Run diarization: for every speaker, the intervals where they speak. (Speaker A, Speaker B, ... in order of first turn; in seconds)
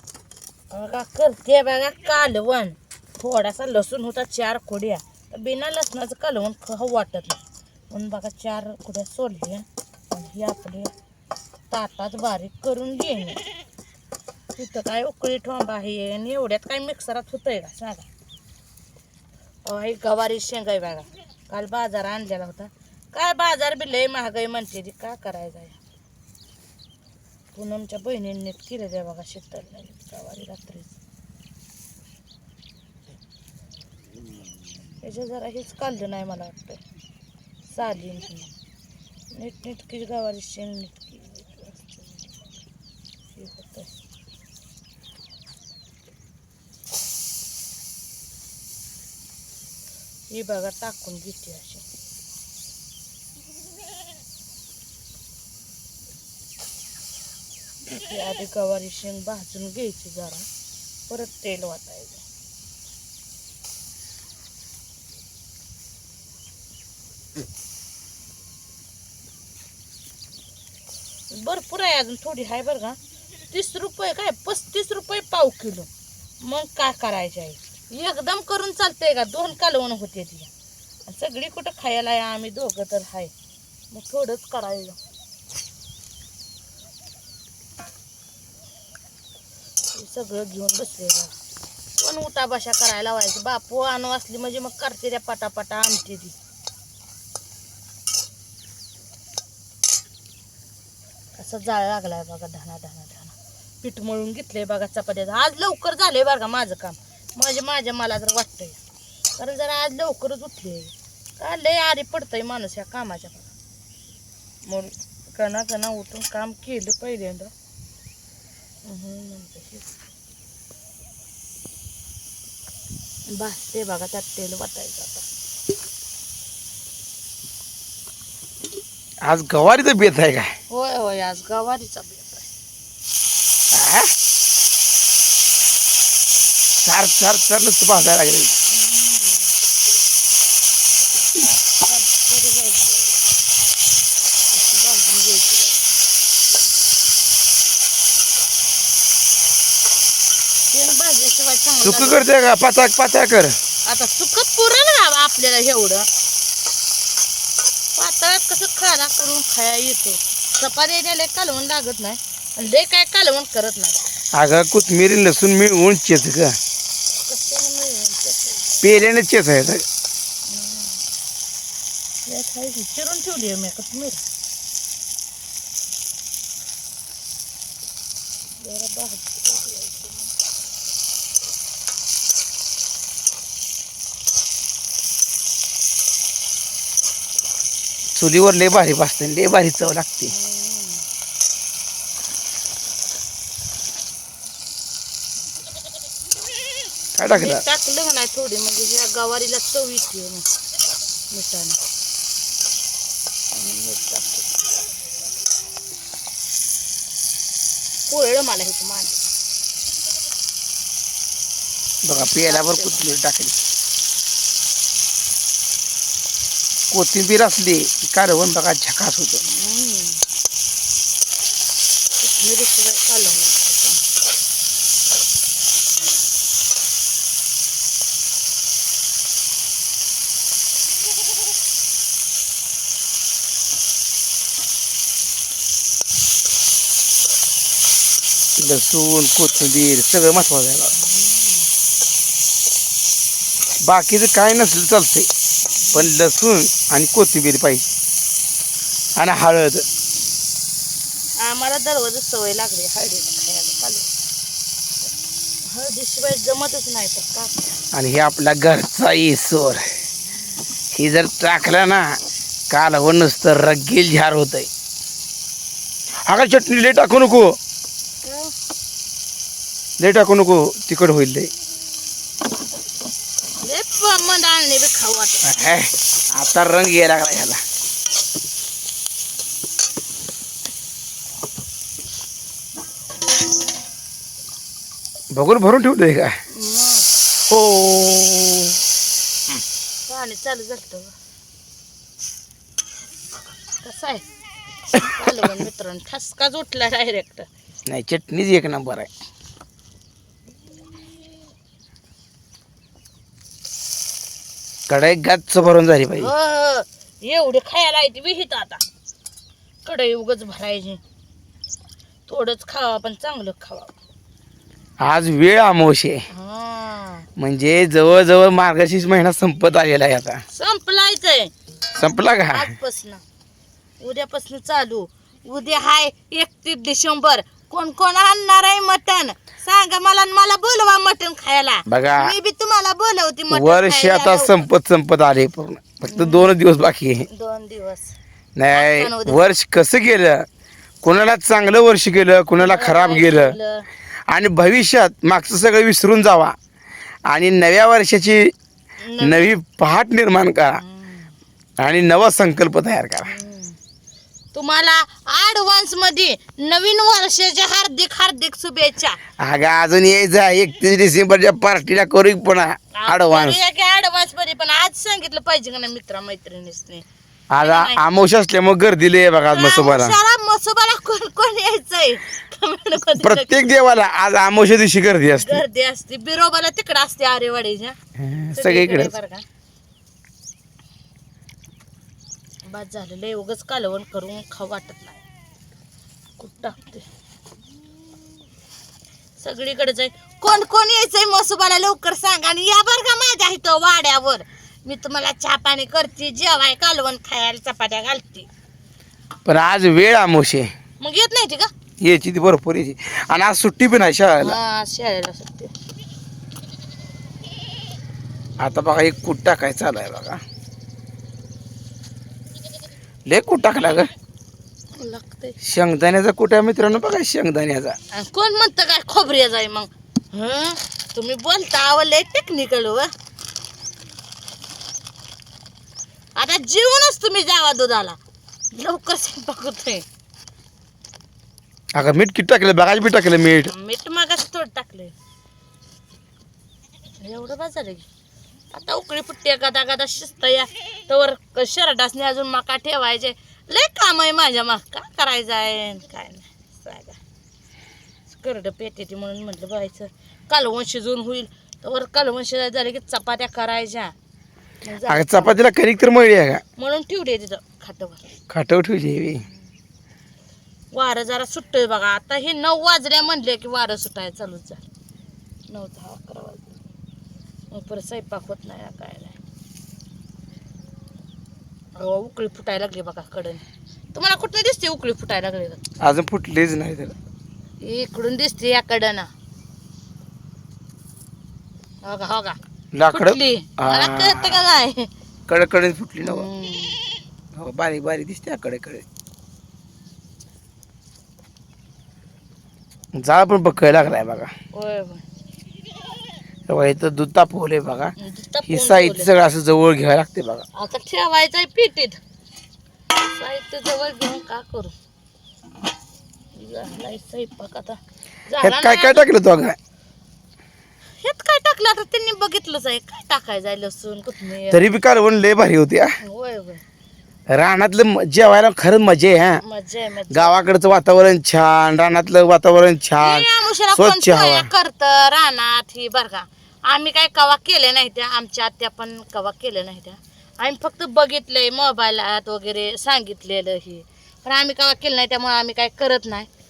Speaker A: 0.7-10.9, 11.7-13.4, 14.6-18.1, 19.6-25.8, 27.5-31.0, 35.0-36.8, 37.7-38.5, 39.3-42.0, 43.4-43.9, 50.3-51.9, 57.9-60.5, 61.1-62.2, 71.3-73.0, 73.5-75.9, 76.4-80.5, 81.1-83.3, 83.9-85.0, 89.9-91.3, 92.0-96.3, 101.3-108.8, 109.4-113.5, 114.7-117.5, 118.8-120.0, 123.3-125.2, 130.7-132.5, 138.7-139.5, 141.2-143.3, 144.5-145.9, 150.7-152.3, 153.8-156.1, 158.0-164.1, 167.3-168.8, 170.5-171.0, 172.3-174.2, 178.6-180.3, 190.3-191.0, 197.3-200.5, 201.3-201.8, 203.5-204.5, 208.1-209.2, 212.1-213.0, 219.4-220.2, 222.2-224.0, 241.0-241.7, 251.4-254.1, 255.7-257.6, 268.2-268.5, 273.6-275.5, 286.5-287.1, 290.1-291.1, 293.8-294.2, 294.9-297.5, 306.2-308.8, 309.9-311.0, 312.3-314.0, 316.3-317.3, 320.5-321.5, 322.5-323.2, 324.0-334.7, 336.1-336.6, 337.3-338.1, 338.7-339.5, 342.6-343.9, 349.0-349.5, 350.8-351.3, 353.2-353.8, 354.5-359.2, 362.9-367.1, 367.6-368.0, 369.5-373.6, 375.3-378.0, 378.5-379.4, 382.6-385.2, 386.4-387.1, 389.4-398.5, 401.0-401.7, 404.4-405.7, 414.9-415.6, 418.1-423.1, 426.4-428.2, 428.7-430.1, 433.6-435.1, 437.2-438.1, 438.7-447.2, 448.3-454.1, 454.8-455.6, 456.8-458.3, 460.9-464.9, 465.7-466.8, 467.7-469.4, 472.0-473.6, 474.1-475.8, 477.8-479.3, 482.0-482.6, 483.1-485.1, 486.2-487.0, 494.7-495.2, 498.2-499.3, 500.8-502.2, 503.1-504.9, 506.6-509.3, 511.2-514.9, 516.2-516.8, 519.6-520.5, 523.2-536.5
Speaker B: 129.2-130.5, 133.7-134.1, 136.8-138.5, 151.8-153.6, 164.3-166.6, 168.8-169.8, 188.2-190.3, 197.2-197.6, 212.0-213.6, 216.9-219.4, 238.6-240.9, 243.8-245.3, 245.9-247.9, 249.2-249.8, 257.9-259.9, 260.9-262.1, 262.7-264.7, 266.3-267.5, 270.0-271.5, 275.4-277.6, 285.3-286.4, 287.5-288.8, 297.9-299.1, 304.9-306.3, 315.0-316.3, 317.4-320.4, 322.0-322.7, 331.9-332.4, 333.5-337.3, 338.6-340.5, 341.0-343.6, 344.3-346.6, 347.3-348.5, 349.2-350.8, 351.8-353.3, 359.4-363.6, 367.5-370.2, 373.2-375.6, 378.2-379.1, 399.5-400.7, 402.0-404.6, 408.6-410.4, 413.3-414.1, 415.6-418.0, 431.9-433.7, 455.1-456.6, 458.5-459.4, 476.0-477.1, 482.9-484.6, 485.5-486.5, 487.5-489.0, 493.1-494.5, 496.7-498.1, 498.7-500.7, 508.6-509.8, 514.7-516.1, 517.5-519.6, 520.3-524.7